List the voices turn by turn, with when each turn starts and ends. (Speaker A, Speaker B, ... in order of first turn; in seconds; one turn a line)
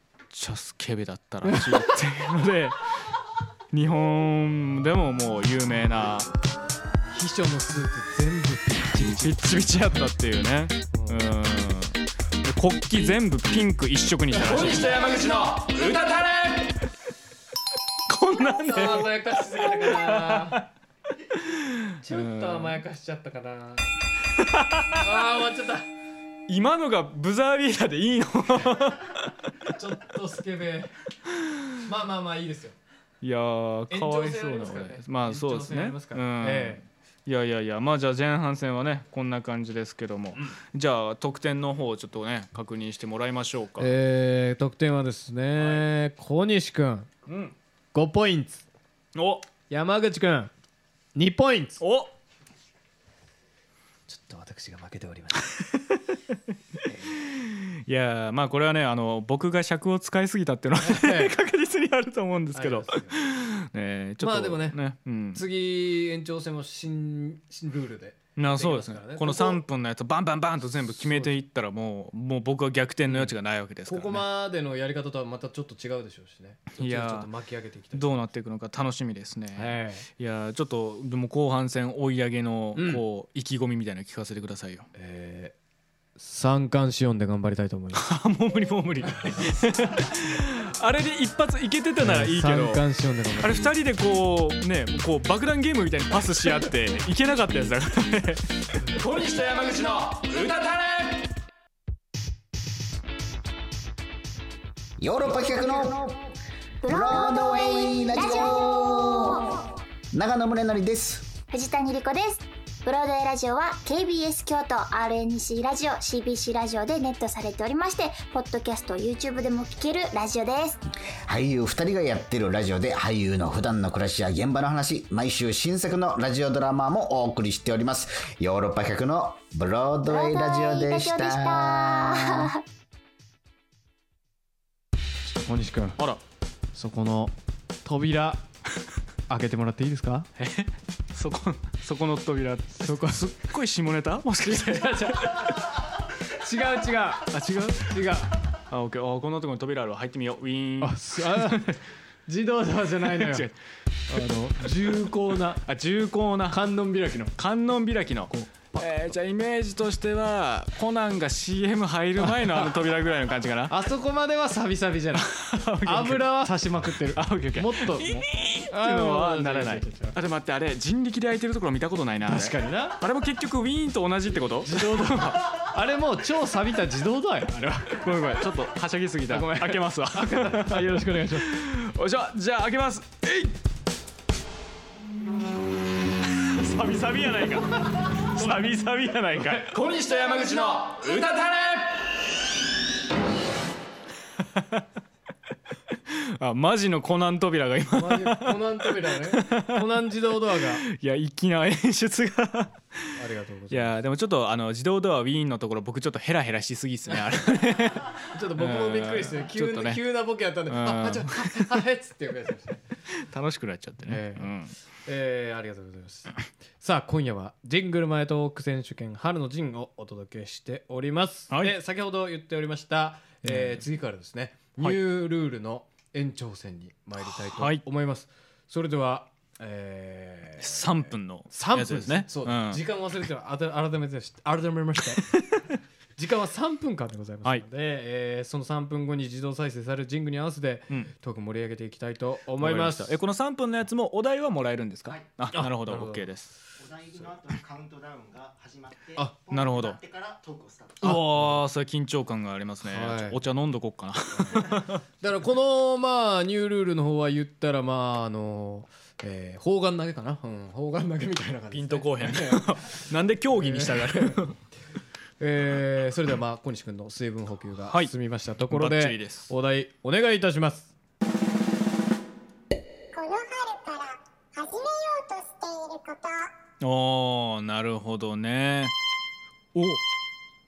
Speaker A: 0.3-2.8
Speaker B: 1.4-1.9
Speaker A: 3.7-6.3
Speaker B: 7.1-9.5
Speaker A: 9.2-16.7
Speaker B: 10.9-11.3
Speaker A: 18.1-20.6
Speaker B: 18.4-20.6
Speaker A: 21.4-22.8
Speaker B: 22.0-23.9
Speaker A: 24.4-25.1
Speaker B: 24.9-25.9
Speaker A: 26.5-29.3
Speaker B: 29.6-30.9
Speaker B: 31.8-32.8
Speaker A: 33.2-43.9
Speaker B: 33.9-36.8
Speaker B: 43.8-47.1
Speaker A: 45.6-45.8
Speaker A: 47.2-47.5
Speaker B: 47.9-48.6
Speaker A: 49.1-49.5
Speaker B: 49.7-50.5
Speaker B: 51.1-51.8
Speaker A: 51.8-52.1
Speaker B: 54.1-55.5
Speaker B: 56.8-57.1
Speaker A: 57.1-65.4
Speaker B: 60.8-61.3
Speaker B: 62.5-63.2
Speaker B: 64.2-64.8
Speaker B: 65.3-69.6
Speaker A: 68.3-74.2
Speaker B: 71.0-71.3
Speaker B: 73.1-73.3
Speaker B: 73.8-78.1
Speaker A: 76.8-77.3
Speaker A: 77.9-84.9
Speaker B: 79.5-80.1
Speaker B: 82.7-83.0
Speaker B: 84.9-85.5
Speaker B: 86.2-88.0
Speaker A: 87.9-92.8
Speaker B: 92.0-93.6
Speaker A: 93.4-101.0
Speaker C: 105.0-106.2
Speaker D: 106.8-109.6
Speaker C: 106.9-109.6
Speaker C: 110.1-111.3
Speaker D: 111.5-120.8
Speaker C: 121.3-132.5
Speaker D: 130.1-132.6
Speaker B: 135.4-136.0
Speaker B: 136.7-138.4
Speaker B: 139.3-140.3
Speaker A: 140.4-145.5
Speaker B: 142.8-143.3
Speaker B: 144.5-145.5
Speaker B: 146.4-148.3
Speaker A: 147.3-147.7
Speaker A: 148.7-151.8
Speaker B: 150.8-151.7
Speaker B: 152.3-153.5
Speaker A: 153.0-153.6
Speaker B: 154.1-155.6
Speaker A: 155.6-156.6
Speaker B: 156.5-157.3
Speaker A: 157.4-163.7
Speaker B: 158.3-158.8
Speaker B: 162.2-162.7
Speaker B: 163.7-165.3
Speaker A: 165.2-166.5
Speaker B: 165.8-170.2
Speaker A: 167.1-175.4
Speaker B: 172.2-173.0
Speaker B: 174.6-178.2
Speaker A: 177.9-183.6
Speaker B: 179.3-181.5
Speaker A: 186.3-191.9
Speaker A: 194.4-194.8
Speaker A: 196.1-200.0
Speaker B: 197.9-200.8
Speaker A: 200.5-203.1
Speaker B: 203.1-204.0
Speaker A: 203.7-210.0
Speaker B: 208.2-212.8
Speaker A: 210.7-211.8
Speaker A: 213.1-214.7
Speaker B: 214.1-214.5
Speaker B: 215.0-235.3
Speaker A: 223.4-223.8
Speaker A: 227.2-227.8
Speaker A: 230.6-232.8
Speaker A: 235.2-235.8
Speaker B: 236.2-243.1
Speaker A: 242.6-246.5
Speaker B: 245.5-246.2
Speaker E: 246.8-251.0
Speaker A: 249.5-250.0
Speaker B: 251.0-251.6
Speaker A: 251.0-255.0
Speaker B: 252.8-253.4
Speaker B: 254.5-264.4
Speaker A: 261.7-264.6
Speaker B: 265.4-270.9
Speaker A: 268.7-269.5
Speaker F: 273.1-276.5
Speaker A: 276.8-278.9
Speaker A: 279.7-280.0